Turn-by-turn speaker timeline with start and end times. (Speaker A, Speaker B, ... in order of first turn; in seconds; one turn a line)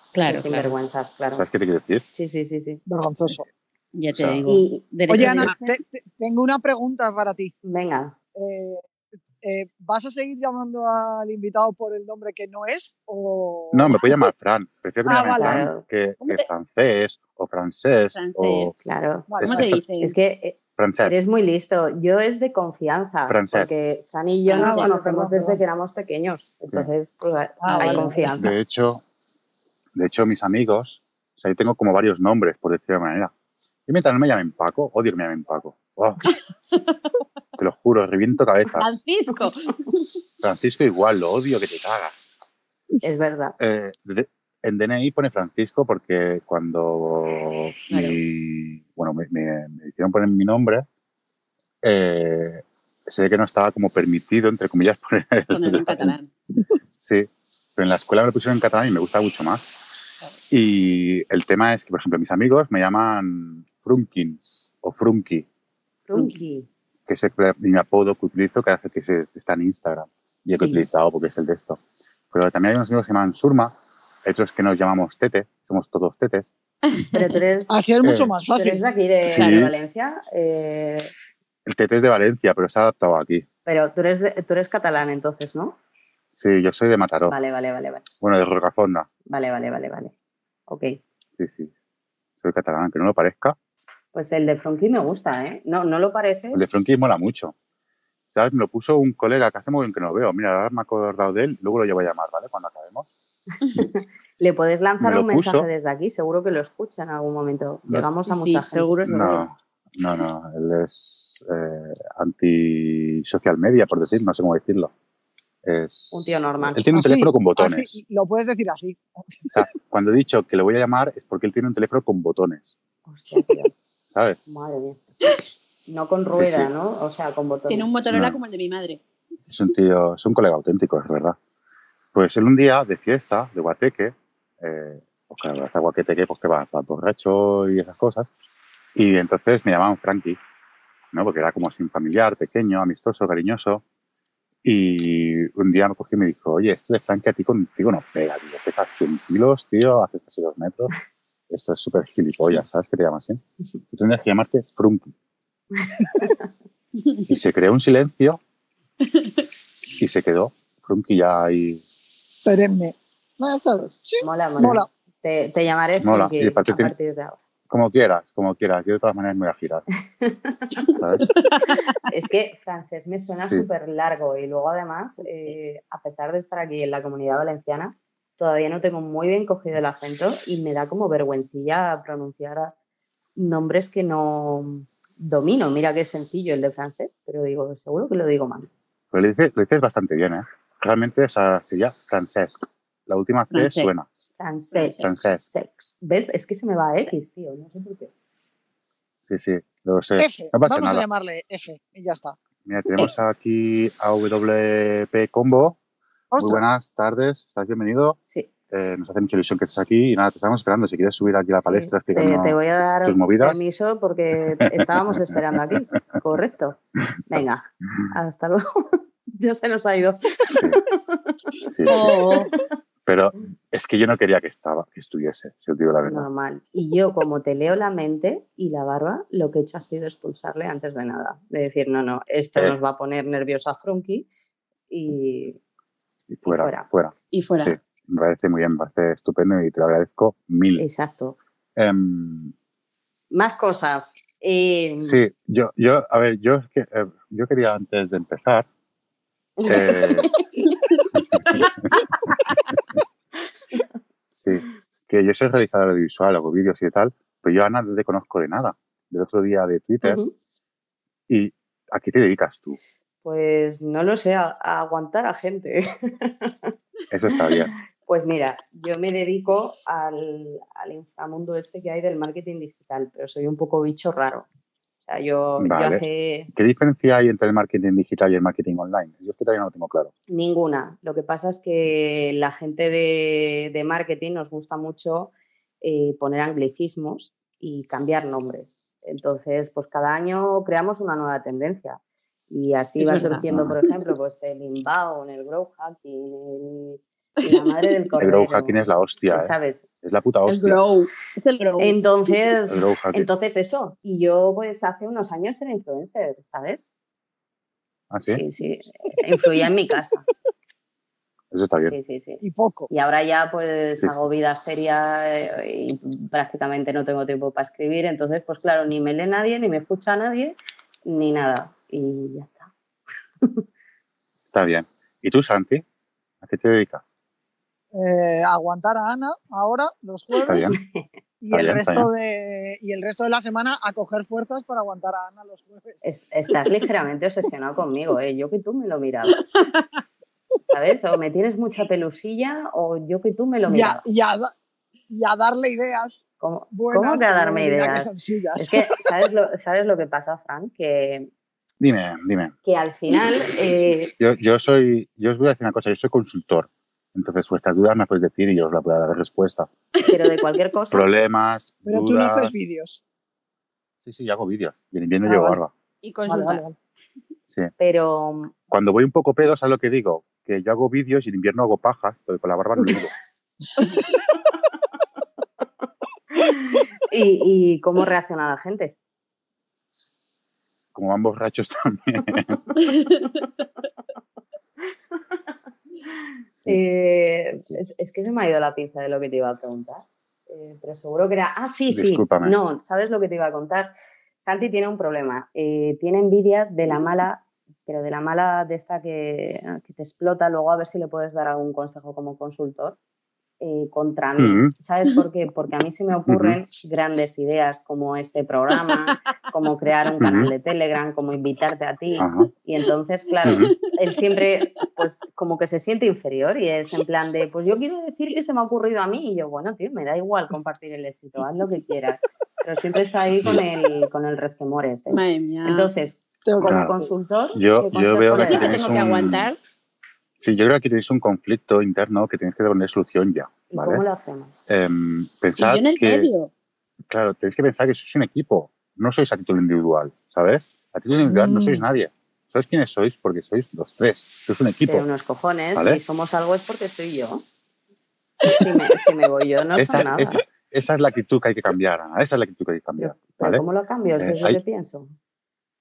Speaker A: 0.1-0.7
Speaker B: 0.2-1.4
Speaker C: 1.3-2.0
Speaker B: 2.1-2.8
Speaker D: 2.9-3.5
Speaker A: 3.9-5.8
Speaker C: 4.1-4.4
Speaker B: 4.5-5.5
Speaker D: 5.1-7.5
Speaker B: 7.6-8.1
Speaker D: 8.3-8.8
Speaker D: 9.4-14.0
Speaker C: 13.7-18.7
Speaker D: 15.0-15.7
Speaker B: 15.3-15.8
Speaker A: 18.1-18.7
Speaker B: 18.8-19.3
Speaker D: 19.3-19.7
Speaker C: 19.4-19.8
Speaker A: 19.4-20.1
Speaker B: 20.0-28.5
Speaker C: 20.8-21.2
Speaker C: 23.3-23.7
Speaker A: 24.5-24.9
Speaker D: 24.5-25.6
Speaker D: 27.6-28.3
Speaker A: 27.7-28.1
Speaker C: 28.3-29.0
Speaker C: 29.9-33.3
Speaker C: 33.9-36.3
Speaker C: 37.6-39.0
Speaker A: 38.8-39.7
Speaker C: 40.4-42.2
Speaker B: 43.0-43.5
Speaker C: 43.6-50.9
Speaker A: 47.9-48.2
Speaker C: 51.8-56.1
Speaker A: 55.5-56.3
Speaker C: 57.0-59.6
Speaker C: 60.5-65.5
Speaker B: 66.0-66.7
Speaker C: 67.1-73.7
Speaker C: 74.2-76.5
Speaker B: 77.1-77.7
Speaker D: 77.7-78.8
Speaker C: 78.0-78.3
Speaker B: 78.5-81.1
Speaker C: 79.2-79.7
Speaker C: 81.6-83.5
Speaker B: 83.7-85.8
Speaker C: 86.3-87.3
Speaker B: 87.3-88.0
Speaker C: 88.2-89.1
Speaker B: 89.3-90.1
Speaker B: 90.7-91.0
Speaker C: 91.4-91.7
Speaker C: 92.4-93.5
Speaker B: 94.1-96.6
Speaker C: 96.5-97.5
Speaker C: 98.3-103.1
Speaker B: 103.7-109.1
Speaker C: 105.0-105.7
Speaker A: 108.3-109.4
Speaker C: 109.0-114.9
Speaker C: 115.6-118.0
Speaker B: 116.1-116.8
Speaker D: 116.9-119.5
Speaker C: 119.5-122.7
Speaker B: 123.0-123.7
Speaker C: 124.1-124.4
Speaker B: 124.5-125.0
Speaker B: 125.9-127.9
Speaker C: 126.3-126.7
Speaker A: 127.7-129.0
Speaker C: 128.1-128.4
Speaker C: 129.5-131.4
Speaker C: 132.1-138.3
Speaker C: 138.9-140.4
Speaker C: 141.1-143.8
Speaker C: 144.6-150.9
Speaker C: 151.5-155.1
Speaker C: 157.3-158.4
Speaker C: 160.0-161.8
Speaker D: 162.4-164.9
Speaker B: 164.2-167.4
Speaker C: 166.0-166.9
Speaker C: 167.7-169.8
Speaker B: 170.2-170.7
Speaker C: 171.0-171.2
Speaker A: 171.3-171.7
Speaker B: 172.1-182.7
Speaker C: 173.4-173.7
Speaker B: 183.4-188.7
Speaker C: 189.1-194.1
Speaker A: 193.5-193.9
Speaker B: 194.4-198.1
Speaker A: 194.8-195.0
Speaker C: 195.0-195.4
Speaker C: 199.2-201.1
Speaker D: 200.2-202.4
Speaker C: 202.6-205.8
Speaker D: 206.3-206.7
Speaker C: 206.4-208.2
Speaker C: 208.7-213.6
Speaker B: 211.5-221.2
Speaker C: 214.6-215.2
Speaker C: 220.5-220.8
Speaker C: 221.7-222.1
Speaker A: 221.9-222.5
Speaker B: 221.9-222.5
Speaker C: 223.1-226.3
Speaker B: 226.0-234.3
Speaker B: 234.9-235.6
Speaker C: 236.3-240.8
Speaker B: 236.4-236.8
Speaker A: 237.3-237.8
Speaker B: 240.8-241.4
Speaker C: 241.8-242.5
Speaker B: 243.3-245.2
Speaker C: 245.0-248.7
Speaker B: 249.6-250.5
Speaker C: 249.6-250.3
Speaker C: 251.1-251.9
Speaker C: 254.3-260.2
Speaker B: 260.0-260.3
Speaker C: 261.3-262.8
Speaker B: 263.2-266.7
Speaker C: 267.1-267.7
Speaker B: 268.1-274.5
Speaker B: 275.0-276.5
Speaker C: 275.6-280.1
Speaker B: 280.3-299.9
Speaker A: 293.0-293.7
Speaker C: 293.5-293.7
Speaker A: 297.4-297.7
Speaker C: 298.2-300.8
Speaker A: 300.4-302.4
Speaker B: 301.8-306.9
Speaker C: 302.7-303.3
Speaker C: 308.1-308.4
Speaker B: 308.2-310.2
Speaker C: 311.5-311.9
Speaker B: 311.9-322.7
Speaker D: 312.4-312.9
Speaker C: 324.4-325.8
Speaker C: 326.4-327.0
Speaker D: 327.9-330.7
Speaker C: 330.4-330.8
Speaker B: 330.6-331.1
Speaker D: 331.4-336.0
Speaker C: 331.5-332.1
Speaker B: 336.0-339.4
Speaker B: 340.6-344.0
Speaker D: 343.7-344.5
Speaker D: 345.1-346.2
Speaker B: 346.4-351.3
Speaker D: 346.7-349.0
Speaker C: 351.8-352.5
Speaker B: 352.6-354.1
Speaker C: 354.2-359.7
Speaker B: 360.1-361.1
Speaker C: 360.9-362.5
Speaker D: 361.9-363.0
Speaker C: 364.0-365.7
Speaker D: 365.2-365.6
Speaker A: 366.0-366.6
Speaker D: 366.3-366.7
Speaker B: 367.8-368.5
Speaker C: 368.7-373.1
Speaker B: 376.4-378.9
Speaker C: 380.9-382.6
Speaker B: 386.6-403.0
Speaker C: 391.9-392.6
Speaker B: 403.6-428.8
Speaker C: 404.4-404.7
Speaker C: 406.3-406.6
Speaker C: 410.2-410.5
Speaker C: 412.2-412.5
Speaker C: 413.4-413.7
Speaker A: 425.1-425.9
Speaker D: 426.4-427.1
Speaker C: 426.6-426.9
Speaker C: 427.5-429.5
Speaker A: 428.3-429.6
Speaker C: 430.4-434.0
Speaker B: 433.7-434.6
Speaker C: 434.7-436.3
Speaker A: 435.6-436.5
Speaker C: 437.1-445.1
Speaker B: 444.9-447.4
Speaker C: 445.7-446.0
Speaker B: 448.4-450.4
Speaker C: 449.7-453.6
Speaker B: 453.0-455.1
Speaker C: 454.2-454.6